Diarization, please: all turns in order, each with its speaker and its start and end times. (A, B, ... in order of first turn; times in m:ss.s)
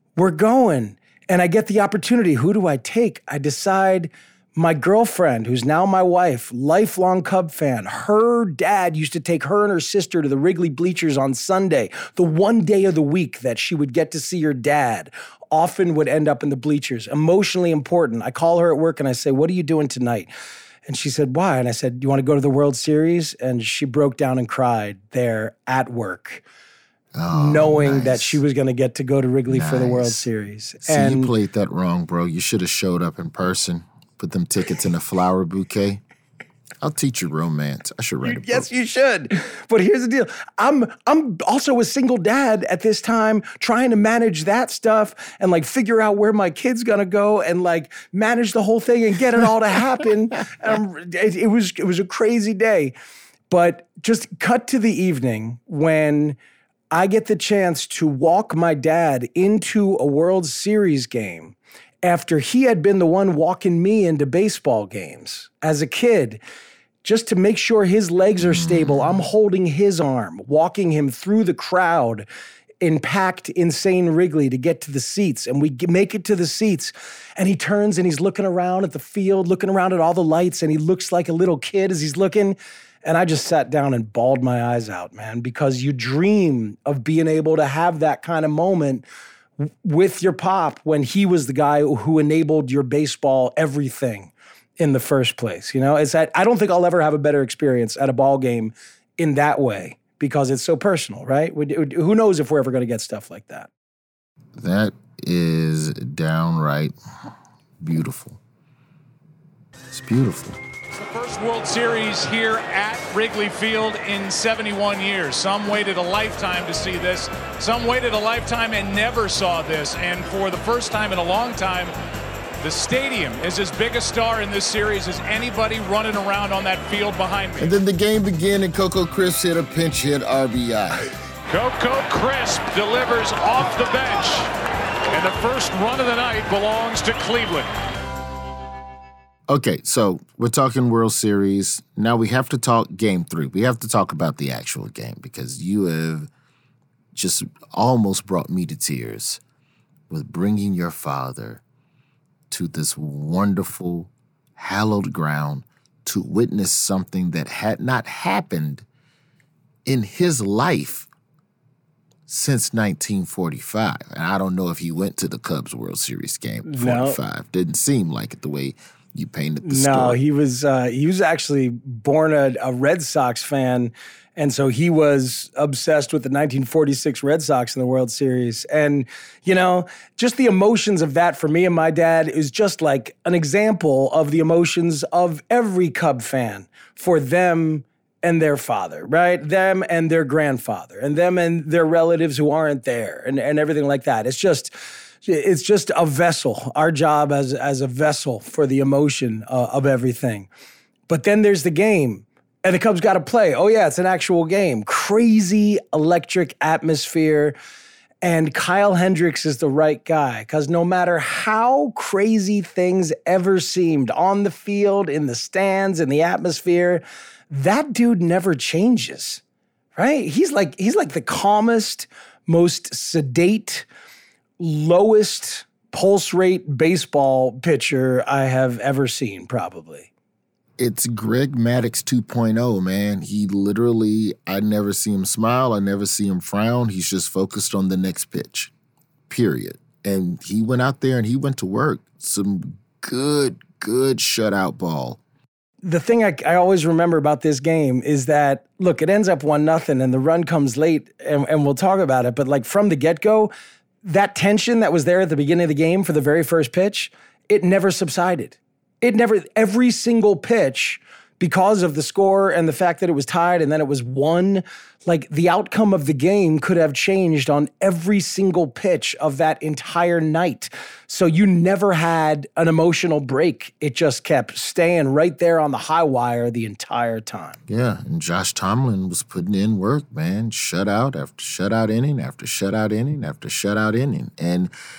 0:00.2-0:20.3 A
0:20.9-0:26.4 A
0:27.2-0:28.4 B
0:27.3-0:31.3 A
0:29.5-0:30.3 B
0:30.8-0:36.0 B
0:36.8-0:38.7 B
0:38.2-0:52.9 A
0:53.5-0:56.4 A
0:56.9-1:06.4 A
1:07.0-1:12.3 A
1:08.4-1:09.2 B
1:12.8-1:29.0 A
1:29.6-1:43.7 A
1:44.6-1:46.9 B
1:47.8-1:48.4 B
1:49.9-1:50.6 B
1:50.9-2:01.9 C
2:02.6-2:07.7 C
2:07.6-2:11.1 B
2:11.5-2:14.5 C
2:15.1-2:17.7 C
2:19.5-2:26.3 B
2:27.1-2:29.4 B
2:30.1-2:31.6 B
2:32.5-2:38.9 B
2:39.9-2:41.1 B
2:42.3-2:50.2 B
2:46.6-2:47.2 A
2:49.6-3:20.5 A
3:21.1-3:27.6 A
3:28.2-3:39.4 A
3:40.0-3:43.9 A
3:44.6-3:50.1 A
3:50.8-3:58.7 B
3:59.3-4:05.2 B
4:05.8-4:13.5 A
4:14.0-4:37.6 A
4:37.7-4:44.7 B